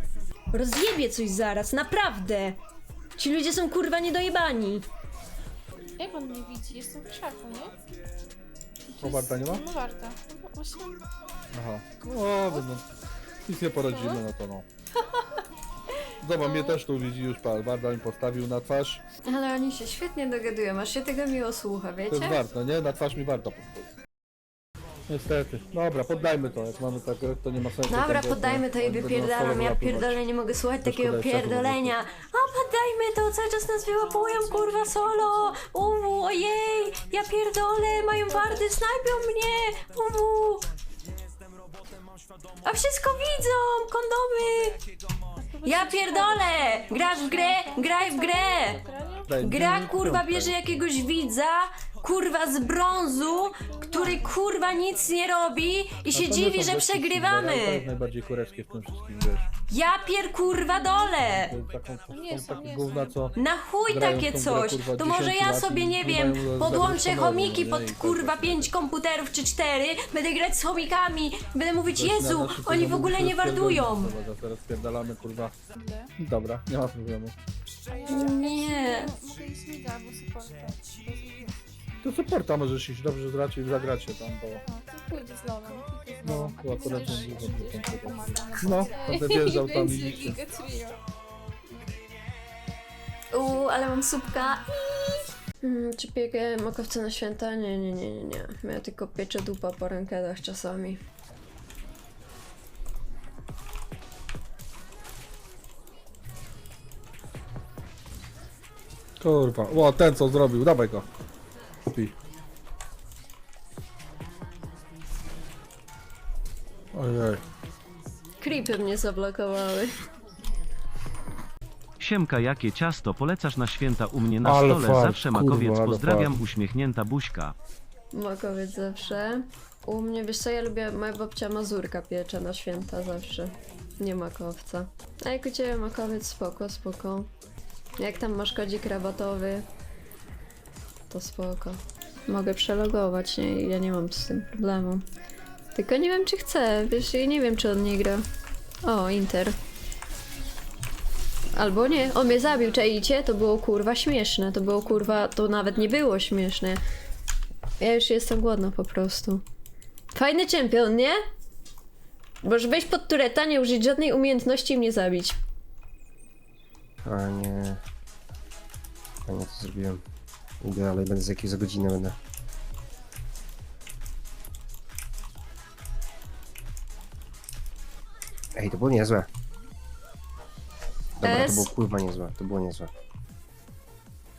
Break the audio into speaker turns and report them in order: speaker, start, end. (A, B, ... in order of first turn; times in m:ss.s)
0:00.5-0:02.6 A
0:03.2-0:04.8 A
0:06.0-0:07.8 B
0:08.9-0:11.0 B
0:09.0-0:09.6 C
0:11.5-0:12.9 C
0:13.4-0:14.7 C
0:13.8-0:14.2 B
0:16.2-0:19.0 C
0:19.2-0:22.5 A
0:22.1-0:23.8 C
0:25.1-0:30.2 C
0:27.9-0:40.7 A
0:30.8-0:32.0 C
0:34.3-0:35.6 B
0:38.0-0:38.8 B
0:42.6-0:44.8 A
0:45.4-0:49.4 B
0:45.6-0:48.8 A
0:49.3-0:50.9 C
0:49.4-0:57.9 A
0:53.4-0:54.4 B
0:56.1-0:59.4 C
0:59.7-1:01.6 A
1:01.2-1:03.3 C
1:02.1-1:03.3 B
1:03.3-1:14.2 A
1:03.9-1:08.8 C
1:11.9-1:15.6 C
1:15.7-1:16.1 B
1:16.2-1:17.3 C
1:17.9-1:21.6 B
1:18.1-1:19.1 A
1:22.0-1:24.6 C
1:24.6-1:31.0 B
1:26.2-1:30.4 C
1:33.3-1:41.0 A
1:49.2-1:51.0 C
1:51.9-1:52.2 C
1:56.9-1:57.4 C
1:58.4-1:59.9 A
2:02.0-2:07.6 D
2:04.4-2:06.4 C
2:08.1-2:17.3 A
2:18.0-2:19.7 A
2:21.1-2:25.0 A
2:25.8-2:28.2 A
2:28.8-2:29.6 A
2:31.5-2:36.8 A
2:37.8-2:39.4 A
2:40.1-2:41.2 A
2:42.4-2:45.4 A
2:47.0-2:47.8 E
2:49.2-2:50.0 E
2:50.6-2:52.2 E
2:58.6-2:59.3 E
3:01.2-3:02.9 E
3:01.2-3:01.7 A